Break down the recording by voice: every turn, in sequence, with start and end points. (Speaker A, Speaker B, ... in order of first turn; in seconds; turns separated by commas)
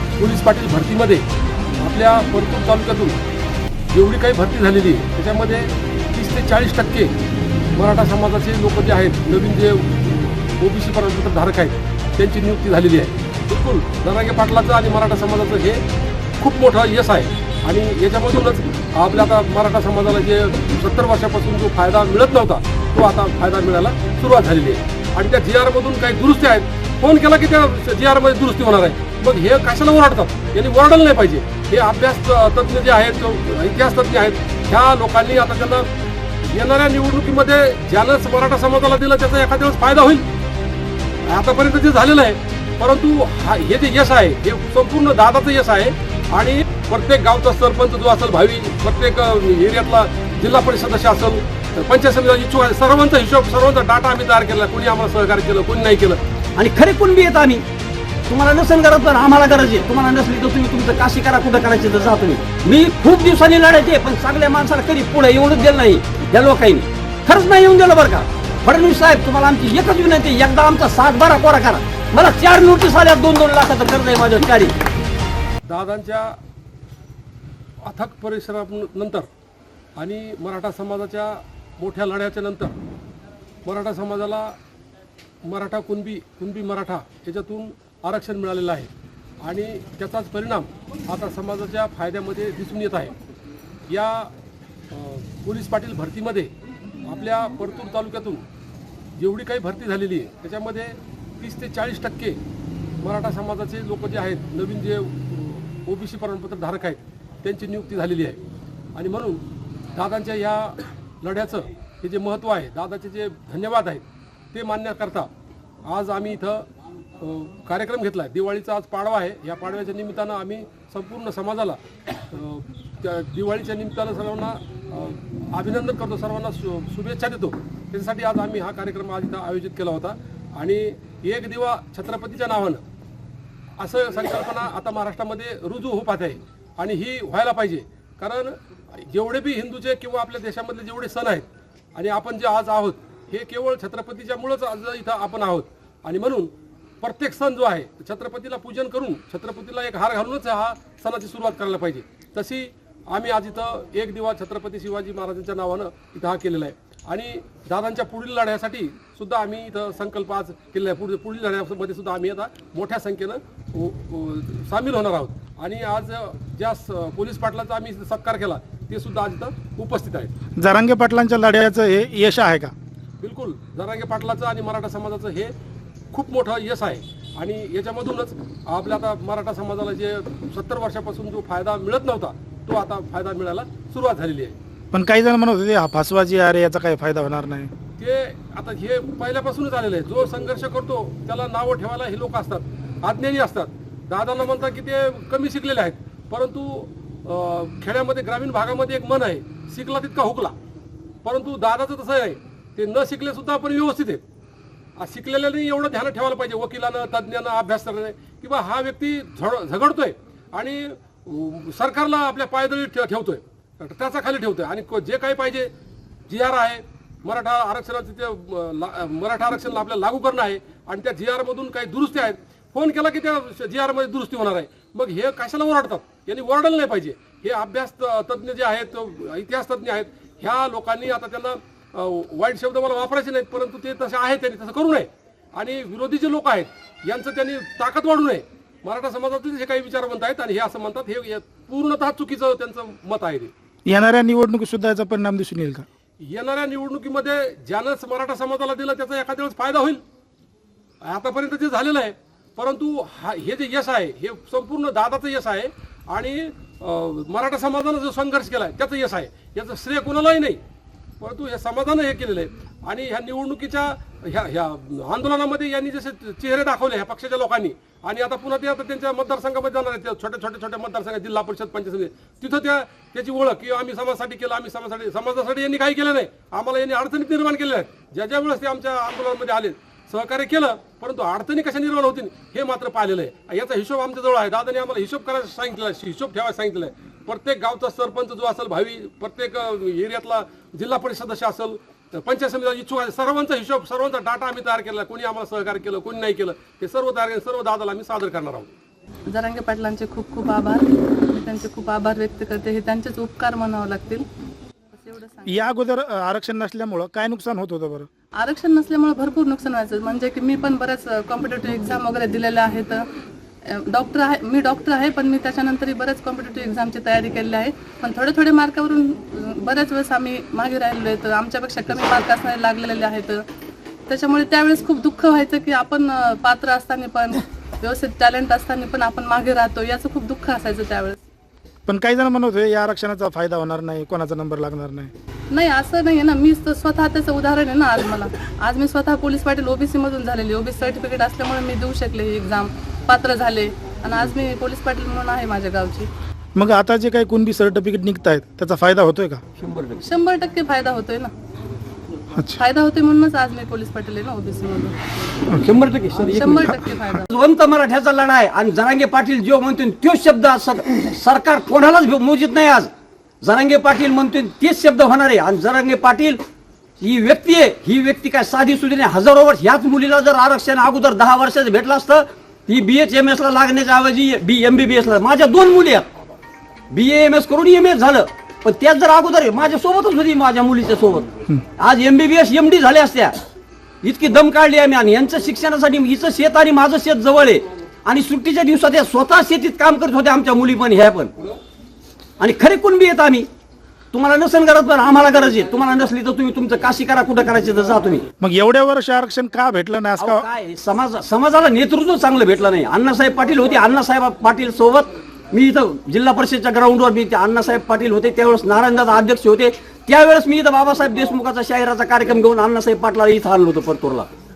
Speaker A: 0.2-1.2, Speaker A: 1.8-3.2, Speaker A: 3.9-7.1, Speaker A: 7.7-15.8, Speaker A: 16.4-35.9, Speaker A: 36.4-40.2, Speaker A: 41.3-56.2, Speaker B: 56.5-57.6, Speaker B: 58.3-74.7, Speaker A: 75.6-76.3, Speaker A: 77.8-79.3, Speaker A: 80.0-82.7, Speaker A: 83.6-84.5, Speaker A: 85.4-88.9, Speaker A: 89.4-93.2, Speaker A: 93.9-94.3, Speaker A: 94.9-96.5, Speaker A: 97.0-98.4, Speaker A: 99.2-102.4, Speaker A: 103.0-108.4, Speaker A: 108.9-109.4, Speaker A: 109.9-115.3, Speaker A: 115.9-116.6, Speaker A: 117.2-121.8, Speaker A: 122.3-132.8, Speaker A: 133.8-170.3, Speaker C: 170.6-172.7, Speaker A: 173.2-175.5, Speaker A: 176.1-184.6, Speaker C: 184.9-187.7, Speaker A: 188.0-200.5, Speaker A: 201.2-204.2, Speaker A: 205.0-215.7, Speaker A: 216.3-243.5, Speaker C: 243.8-245.8, Speaker A: 246.2-250.0, Speaker A: 251.0-260.6, Speaker A: 261.2-298.7, Speaker D: 299.3-304.2, Speaker D: 304.9-305.6, Speaker C: 305.5-308.1, Speaker D: 308.3-313.1, Speaker D: 313.6-323.4, Speaker D: 324.1-331.2, Speaker C: 331.9-335.1, Speaker D: 335.5-346.1, Speaker C: 346.5-349.4, Speaker B: 349.6-350.0, Speaker D: 350.0-351.3, Speaker D: 352.6-355.0, Speaker B: 355.5-356.7, Speaker D: 356.3-357.3, Speaker B: 357.3-362.9, Speaker B: 363.4-366.4, Speaker B: 367.0-376.1, Speaker B: 376.9-383.4, Speaker B: 384.0-391.3, Speaker B: 392.4-393.5, Speaker B: 394.1-398.2, Speaker C: 398.4-400.4, Speaker B: 400.2-414.3